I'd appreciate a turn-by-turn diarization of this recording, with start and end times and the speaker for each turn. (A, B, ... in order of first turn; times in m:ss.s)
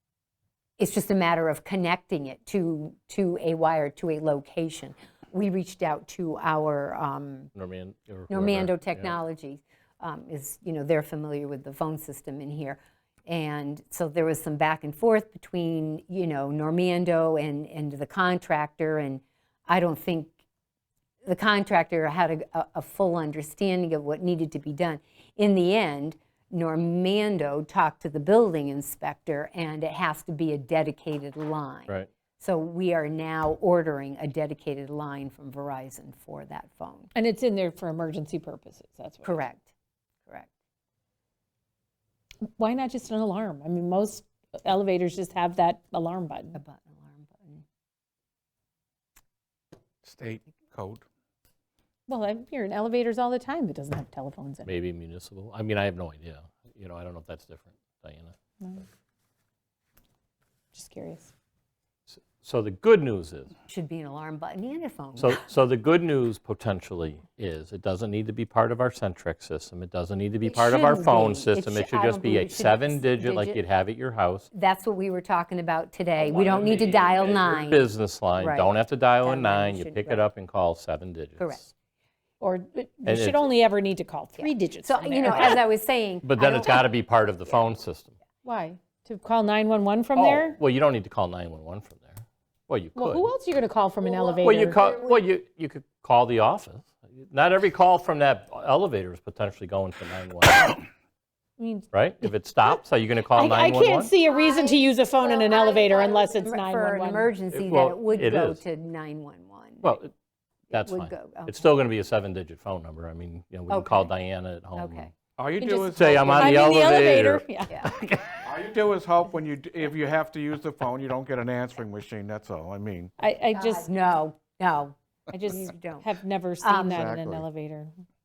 0:00.8-0:07.5 A
0:07.5-0:09.1 B
0:08.3-0:20.3 A
0:21.2-0:37.1 A
0:37.1-0:39.4 C
0:39.2-0:39.7 A
0:42.5-0:46.6 C
0:46.5-0:47.6 A
0:50.0-0:51.0 D
0:52.1-0:54.7 C
0:54.6-0:58.3 B
1:00.7-1:01.3 C
1:02.1-1:03.5 B
1:03.7-1:05.4 A
1:05.2-1:14.5 B
1:10.4-1:13.6 A
1:14.5-1:20.2 A
1:16.2-1:21.7 B
1:21.4-1:21.6 A
1:22.4-1:25.6 C
1:23.1-1:23.4 B
1:24.4-1:26.9 A
1:25.3-1:25.6 B
1:26.2-1:28.1 B
1:28.4-1:30.6 C
1:30.1-1:33.3 B
1:32.9-1:34.8 C
1:34.1-1:35.2 A
1:34.4-1:40.8 B
1:41.6-1:41.9 C
1:41.9-1:44.1 B
1:43.3-1:47.3 C
1:45.7-1:50.0 A
1:47.5-1:48.6 B
1:49.8-1:50.1 B
1:50.7-1:51.7 A
1:50.7-1:55.1 B
1:53.7-1:54.1 A
1:54.8-1:55.1 A
1:55.4-1:56.9 D
1:55.6-1:57.8 C
1:55.9-1:58.4 B
1:58.4-2:03.1 D
2:03.2-2:03.9 C
2:03.5-2:06.1 A
2:05.3-2:07.9 C
2:06.6-2:07.1 A
2:06.9-2:07.5 D